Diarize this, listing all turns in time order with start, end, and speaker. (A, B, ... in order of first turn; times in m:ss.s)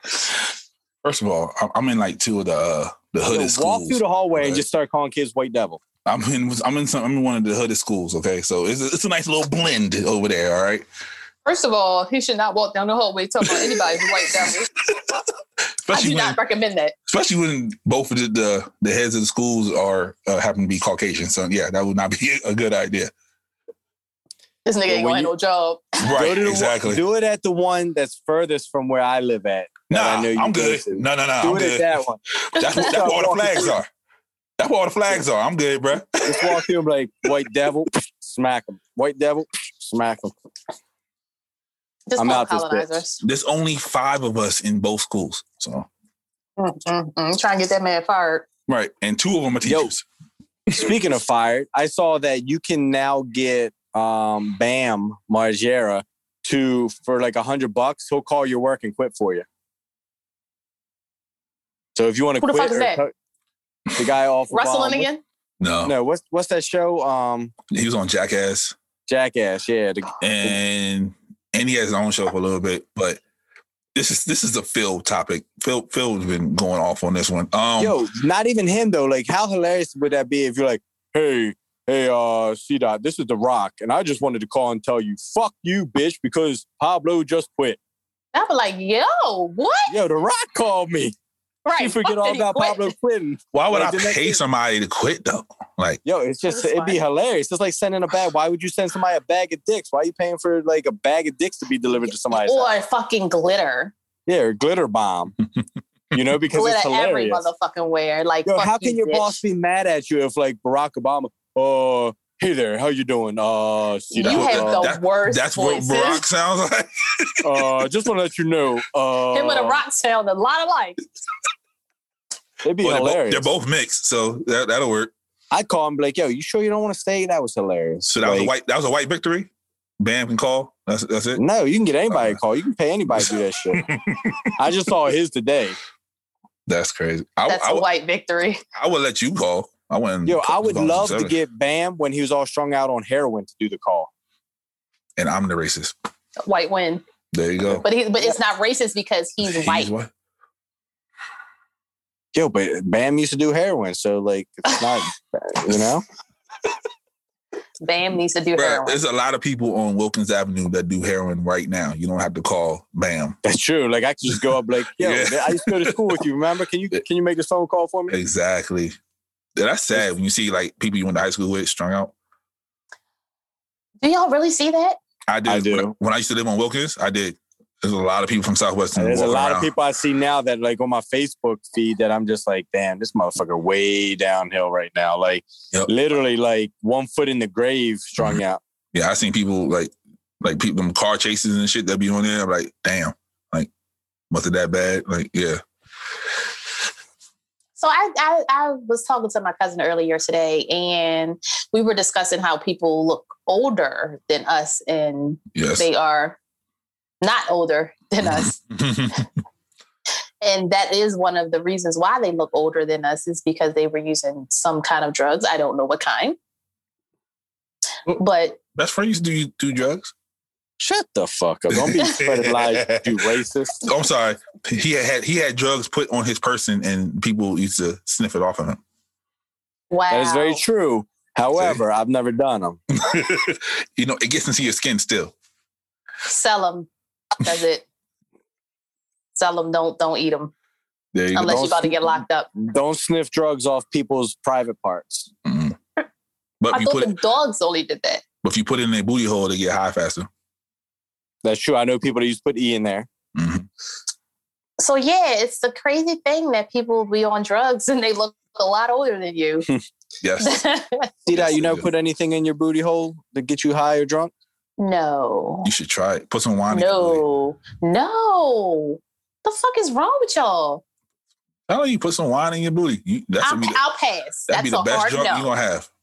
0:01.0-0:04.6 A
0:03.3-0:05.8 B
0:06.0-0:10.9 A
0:11.4-0:14.7 C
0:13.4-0:13.8 A
0:14.4-0:15.2 A
0:15.8-0:16.4 A
0:15.9-0:16.9 C
0:17.1-0:23.1 A
0:24.6-0:26.0 C
0:24.9-0:25.3 B
0:26.0-0:27.0 A
0:26.1-0:33.8 B
0:29.9-0:31.9 A
0:32.4-0:33.9 A
0:32.6-0:32.8 C
0:34.6-0:36.6 A
0:36.2-0:40.3 B
0:42.1-0:43.2 C
0:42.2-0:43.0 B
0:43.2-0:45.9 A
0:46.6-0:48.4 C
0:48.7-0:50.0 A
0:49.6-0:49.9 B
0:50.7-0:59.4 B
1:01.9-1:03.1 B
1:02.4-1:03.0 C
1:04.0-1:05.1 B
1:04.5-1:05.2 C
1:05.6-1:05.9 A
1:05.8-1:07.5 B
1:07.7-1:08.7 A
1:09.1-1:10.6 B
1:10.2-1:13.2 A
1:13.9-1:18.0 A
1:17.8-1:27.8 B
1:28.3-1:29.9 C
1:29.9-1:31.2 B
1:31.6-1:32.9 C
1:31.8-1:34.4 B
1:33.5-1:36.0 A
1:36.0-1:42.7 B
1:36.5-1:37.0 C
1:42.3-1:43.9 C
1:44.3-1:45.3 B
1:46.1-1:47.4 B
1:46.5-1:49.4 C
1:48.4-1:54.9 B
1:54.1-1:56.2 C
1:54.2-1:57.7 A
1:57.4-1:59.8 B
1:59.3-2:01.0 C
2:02.6-2:03.5 B
2:02.8-2:05.1 A
2:05.5-2:08.5 B
2:08.1-2:11.4 A
2:11.4-2:13.9 B
2:12.1-2:12.4 A
2:13.1-2:14.5 A
2:14.6-2:15.8 B
2:16.7-2:17.9 A
2:17.5-2:18.6 C
2:18.7-2:21.3 A
2:20.2-2:24.1 B
2:25.2-2:25.9 A
2:26.4-2:27.0 C
2:27.3-2:27.8 A
2:27.8-2:29.9 C
2:29.4-2:30.1 A
2:32.3-2:36.0 B
2:37.8-2:39.0 C
2:38.6-2:43.4 A
2:43.4-2:48.2 B
2:45.0-2:46.0 A
2:48.1-2:48.9 A
2:49.6-2:52.1 A
2:54.0-2:55.0 C
2:55.3-2:59.7 A
2:55.4-2:55.9 B
2:58.9-3:08.6 B
3:08.9-3:13.7 A
3:14.3-3:15.6 A
3:17.8-3:26.4 C
3:25.6-3:25.9 A
3:27.2-3:28.6 C
3:28.2-3:29.2 A
3:30.4-3:36.4 C
3:38.1-3:38.6 C
3:38.7-3:40.1 A
3:40.8-3:43.8 B
3:41.7-3:43.2 A
3:43.8-3:48.8 A
3:49.9-3:50.6 C
3:50.1-3:52.8 B
3:51.6-3:51.8 A
3:52.9-3:55.3 A
3:56.2-3:57.8 C
3:59.3-4:00.5 C
4:01.1-4:01.7 A
4:01.3-4:02.5 C
4:01.5-4:05.3 B
4:05.4-4:05.8 A
4:06.6-4:07.1 A
4:06.7-4:08.2 C
4:08.4-4:10.3 A
4:11.4-4:13.1 B
4:13.3-4:13.7 A
4:14.8-4:19.6 C
4:20.2-4:20.6 A
4:20.4-4:21.1 C
4:21.2-4:24.3 B
4:21.3-4:21.9 A
4:24.8-4:25.7 C
4:25.6-4:27.2 A
4:26.7-4:30.8 C
4:31.7-4:33.8 A
4:33.4-4:35.5 C
4:34.5-4:35.9 A